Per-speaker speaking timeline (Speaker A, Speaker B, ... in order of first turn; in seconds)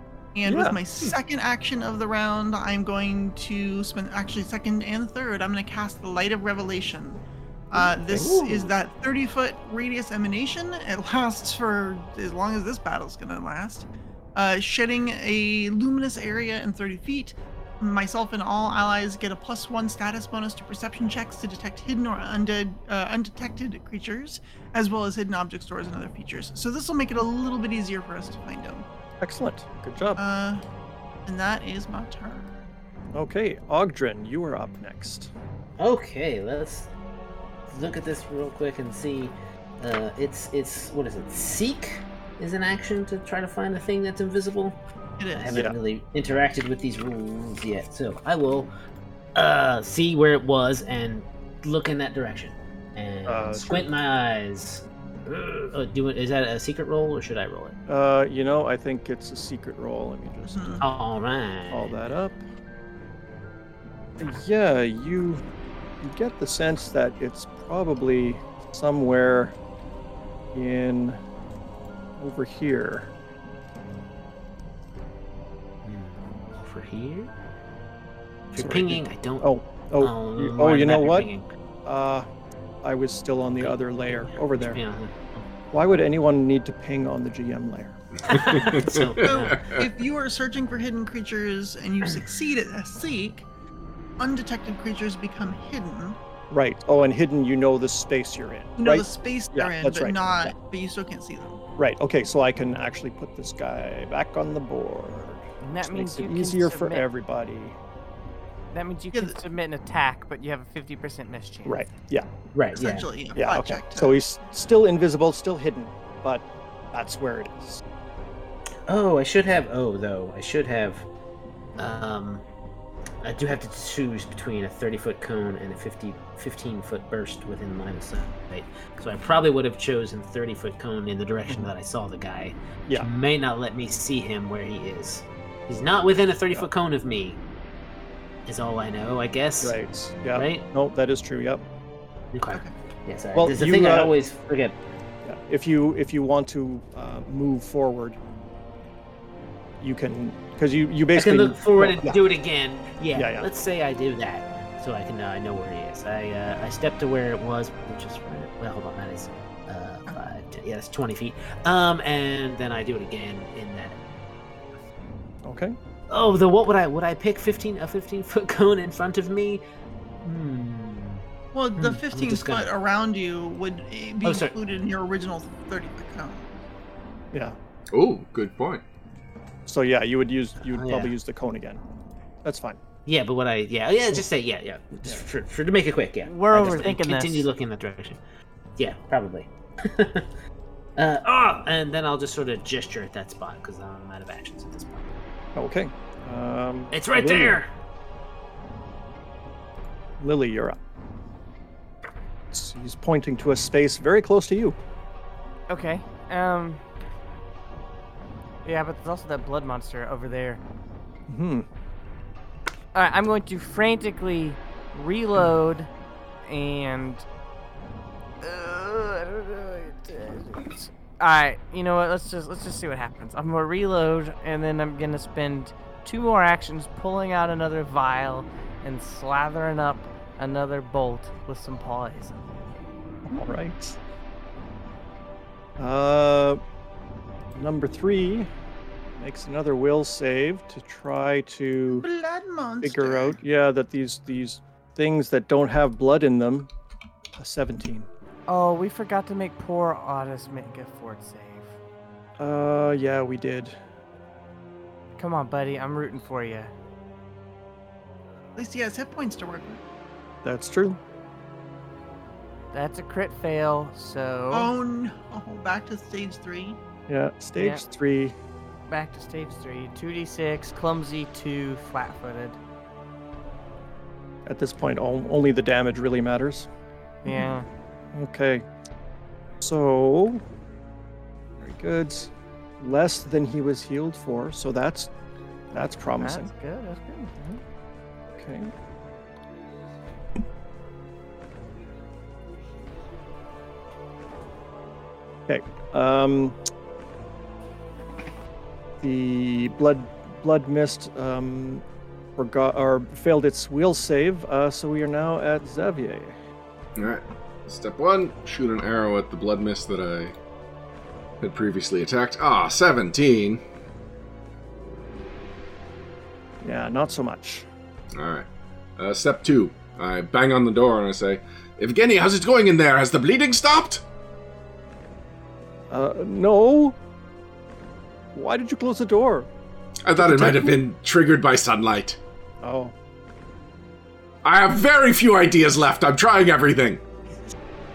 Speaker A: 0.3-28.9, 30.2-30.6, 31.3-32.6, 45.2-45.6, 60.5-60.8, 89.2-93.5, 94.2-96.2, 98.8-101.6, 109.1-109.4, 112.7-114.2, 171.5-176.5, 241.9-243.4, 258.6-259.8, 264.5-266.8
Speaker B: 0.5-0.8, 7.7-8.7, 29.2-30.2, 33.1-35.3, 53.3-53.9, 57.9-60.9, 61.7-62.4, 64.2-65.4, 66.0-69.5, 70.5-71.2, 72.2-73.1, 78.6-81.3, 81.8-82.3, 82.8-84.8, 85.7-88.0, 96.5-100.5, 101.8-107.8, 111.7-112.3, 113.4-117.8, 139.6-141.6, 143.3-144.1, 145.2-148.2, 149.8-152.2, 153.1-153.5, 165.4-165.8, 179.7-181.8, 182.4-182.8, 195.6-197.6, 200.2-200.8, 202.5-204.8, 211.3-211.7, 233.3-234.0, 235.8-236.6, 237.5-238.5, 239.2-242.1, 242.8-246.7, 247.3-248.1, 252.4-253.8, 260.4-261.0, 267.1-268.4, 274.5-276.7, 278.1-278.6, 279.6-280.4, 281.6-285.1, 285.7-286.5, 287.4-287.6, 288.3-288.7, 295.5-296.6, 299.0-301.8, 302.4-306.4, 316.6-317.7, 325.9-327.0, 328.3-329.5, 330.2-330.8, 332.6-332.9
Speaker C: 35.8-36.9, 37.7-44.8, 45.3-48.7, 49.4-57.8, 60.8-62.0, 75.8-77.3, 78.5-81.5, 83.6-85.5, 88.3-89.8, 112.5-113.1, 118.9-121.0, 121.8-122.4, 123.2-137.4, 138.5-139.8, 140.3-140.7, 142.3-144.8, 151.1-164.0, 166.1-169.6, 170.2-171.2, 171.8-172.7, 174.2-174.6, 180.6-181.1, 183.1-188.2, 188.8-190.3, 191.0-195.2, 196.9-197.7
Speaker D: 88.3-89.8, 177.9-178.8, 307.0-310.4, 311.4-313.6, 318.1-324.0, 330.1-332.2, 334.4-337.0
Speaker E: 105.6-107.1, 108.7-111.9, 186.2-187.5, 205.7-206.8, 208.6-210.6, 212.9-215.9, 216.5-217.2, 218.4-232.7, 248.5-251.8, 255.2-256.7, 262.7-264.7, 267.6-267.8, 268.9-272.6, 277.2-277.7, 286.2-287.3